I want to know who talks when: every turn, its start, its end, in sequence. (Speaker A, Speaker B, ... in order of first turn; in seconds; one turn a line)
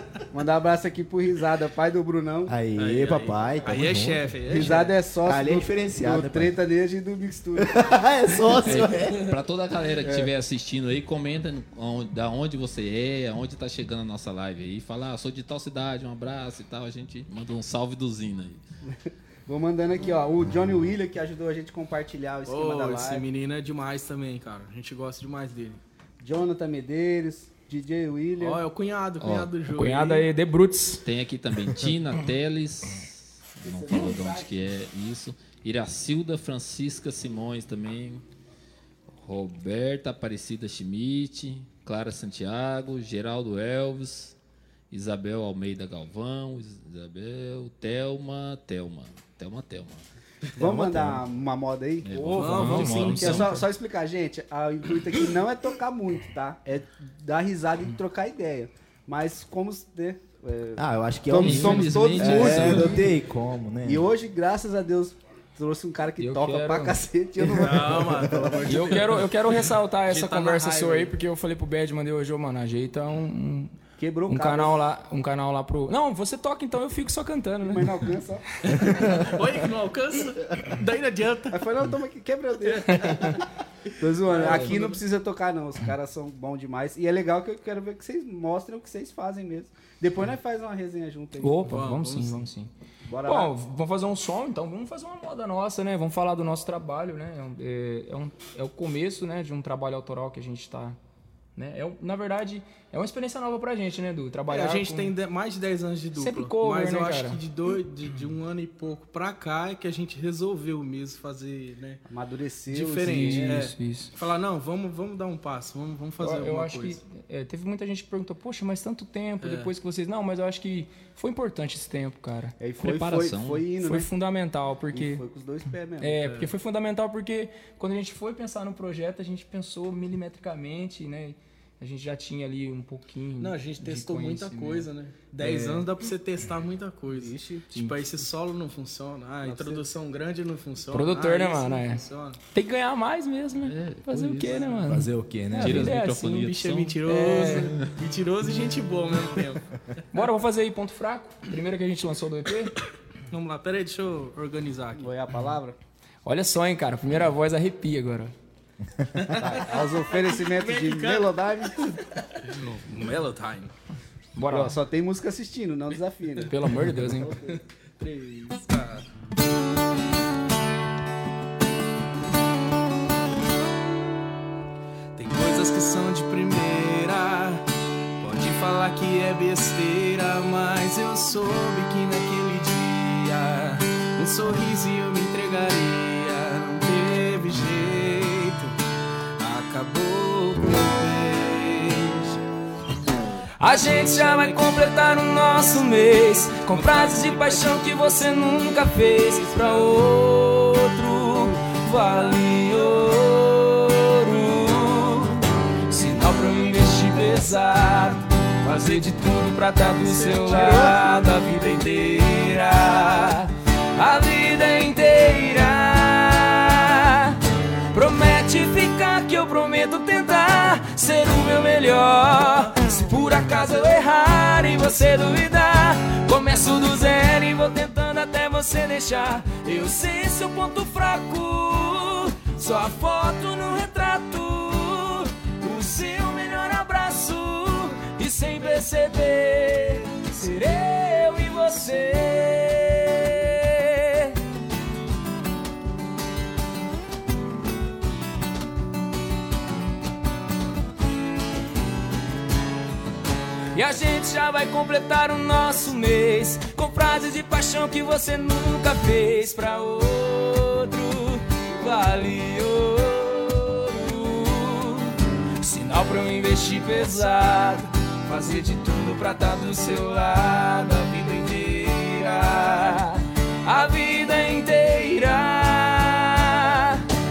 Speaker A: 0.3-2.5
Speaker B: 2.5-6.6
Speaker C: 2.8-5.0
Speaker A: 4.5-7.8
Speaker B: 7.6-9.3
Speaker C: 8.6-9.3
Speaker D: 8.7-18.6
Speaker A: 10.0-10.3
Speaker A: 18.9-23.2
Speaker C: 22.5-25.8
Speaker A: 26.2-28.6
Speaker C: 28.4-30.3
Speaker D: 29.2-29.5
Speaker E: 29.7-31.0
Speaker D: 31.0-38.2
Speaker A: 33.6-34.6
Speaker D: 39.1-44.4
Speaker D: 44.9-50.0
Speaker A: 50.6-63.1
Speaker B: 50.6-51.2
Speaker D: 52.0-53.6
Speaker C: 52.3-53.5
Speaker E: 52.5-53.1
Speaker B: 60.8-64.1
Speaker D: 61.4-63.0
Speaker A: 63.8-69.0
Speaker E: 66.2-67.0
Speaker C: 67.4-69.3
Speaker B: 67.7-68.5
Speaker E: 68.7-73.8
Speaker C: 70.1-71.1
Speaker A: 74.0-74.8
Speaker E: 74.3-78.0
Speaker A: 77.7-78.5
Speaker C: 78.7-81.7
Speaker A: 81.5-83.4
Speaker C: 82.7-83.3
Speaker E: 83.0-83.4
Speaker A: 84.0-91.7
Speaker C: 84.2-85.0
Speaker E: 84.3-84.9
Speaker E: 91.4-92.7
Speaker C: 91.7-92.4
Speaker A: 93.1-93.5
Speaker E: 93.2-101.0
Speaker E: 101.6-105.1
Speaker C: 104.5-112.0
Speaker E: 106.2-107.4
Speaker A: 112.1-113.6
Speaker C: 112.7-117.0
Speaker E: 113.0-114.1
Speaker E: 116.2-122.6
Speaker C: 119.4-119.7
Speaker A: 122.6-124.1
Speaker D: 122.8-123.7
Speaker E: 123.8-125.2
Speaker A: 124.9-126.2
Speaker E: 126.0-135.9
Speaker C: 126.2-126.5
Speaker C: 133.4-142.4
Speaker A: 137.1-137.7
Speaker E: 137.7-138.1
Speaker A: 139.4-139.8
Speaker E: 140.9-146.5
Speaker D: 143.7-144.8
Speaker B: 144.9-146.0
Speaker D: 145.6-147.0
Speaker C: 146.2-149.6
Speaker E: 147.0-147.8
Speaker E: 150.1-152.8
Speaker C: 153.3-155.1
Speaker A: 155.0-155.8
Speaker E: 156.2-158.3
Speaker A: 159.3-162.0
Speaker C: 159.3-161.6
Speaker C: 162.4-163.7
Speaker E: 164.4-164.8
Speaker A: 164.5-167.6
Speaker E: 166.5-167.4
Speaker C: 167.5-169.1
Speaker C: 175.2-177.7
Speaker C: 178.2-188.8
Speaker C: 189.4-192.4
Speaker E: 193.6-217.4
Speaker C: 193.7-198.4
Speaker C: 199.5-199.8
Speaker C: 210.0-211.2
Speaker E: 217.9-244.4
Speaker E: 253.7-277.1